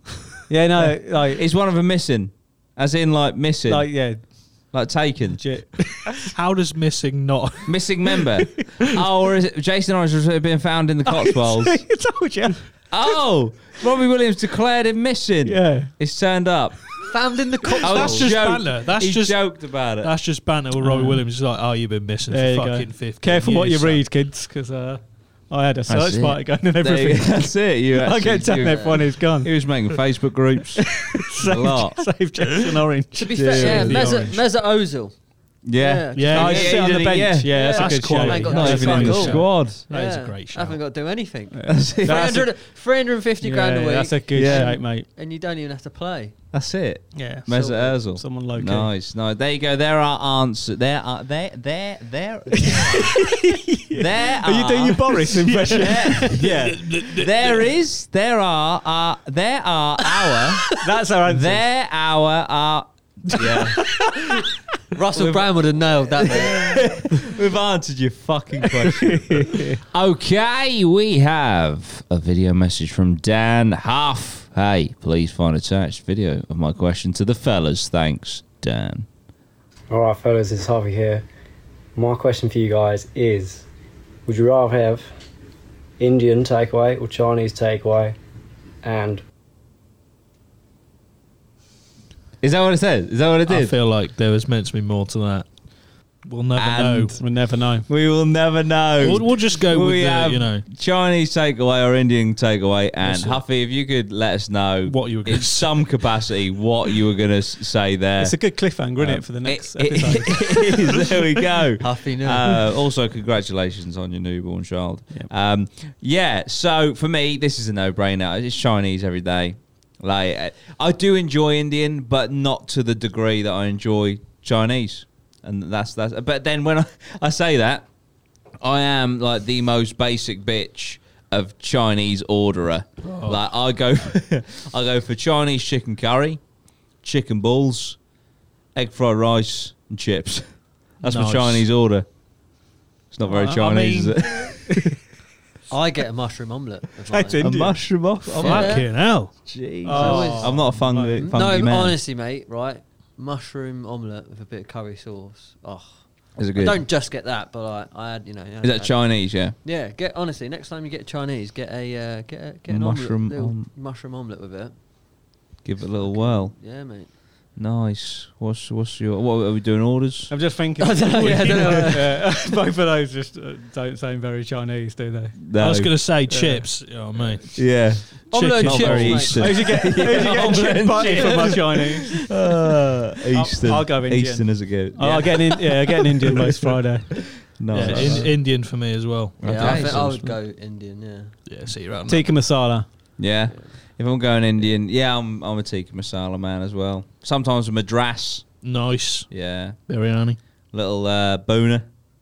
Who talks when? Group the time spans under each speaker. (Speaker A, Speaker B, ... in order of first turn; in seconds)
Speaker A: 0.5-1.4, 3.7-4.7, 5.3-6.2, 11.1-13.2, 15.4-15.9, 20.8-21.2, 22.3-29.5, 31.1-34.3, 36.3-39.4, 42.0-42.4, 43.4-45.1, 47.1-48.9, 52.6-56.5, 60.6-61.6, 63.4-63.7, 68.9-69.8, 97.1-97.8, 108.2-110.7, 143.3-143.6, 144.3-144.7, 147.1-148.1, 149.8-151.2, 170.3-175.4, 176.3-177.2, 179.4-182.3, 183.3-188.3, 192.1-192.9
Speaker B: 0.8-5.4, 7.7-11.9, 12.9-16.8, 17.8-20.1, 25.9-32.1, 33.3-34.1, 35.6-39.8, 41.7-42.5, 44.3-44.8, 46.5-53.2, 54.0-55.2, 55.8-60.7, 61.3-64.0, 66.6-79.1, 92.4-93.7, 96.5-97.3, 97.8-127.9, 128.6-136.4, 137.0-138.0, 138.7-142.1, 143.1-144.8, 147.4-152.0, 156.4-156.8, 158.6-159.5, 162.7-163.7, 165.6-166.6, 167.6-170.3, 175.3-176.0, 177.5-186.3, 187.6-188.4, 189.4-190.2, 193.2-198.7, 199.3-199.8, 200.7-201.9
Speaker C: 6.3-7.8, 17.8-24.0, 33.9-34.2, 36.1-36.5, 37.8-40.8, 55.5-57.3, 93.5-97.2, 99.0-100.7, 103.0-103.4, 104.8-106.1, 133.0-133.6, 141.0-141.7, 143.4-144.1, 148.4-149.6, 175.6-179.6, 187.7-190.4, 191.5-192.3, 198.6-200.4
Speaker D: 17.0-18.3, 28.6-29.0, 33.1-46.4, 47.5-48.0, 64.9-66.9, 111.8-112.7, 145.7-164.7, 165.8-167.1, 170.8-172.2, 178.2-179.6, 180.2-181.6, 189.4-191.4
Speaker E: 79.9-81.2, 81.9-83.6, 84.2-85.1, 86.0-88.2, 88.8-89.2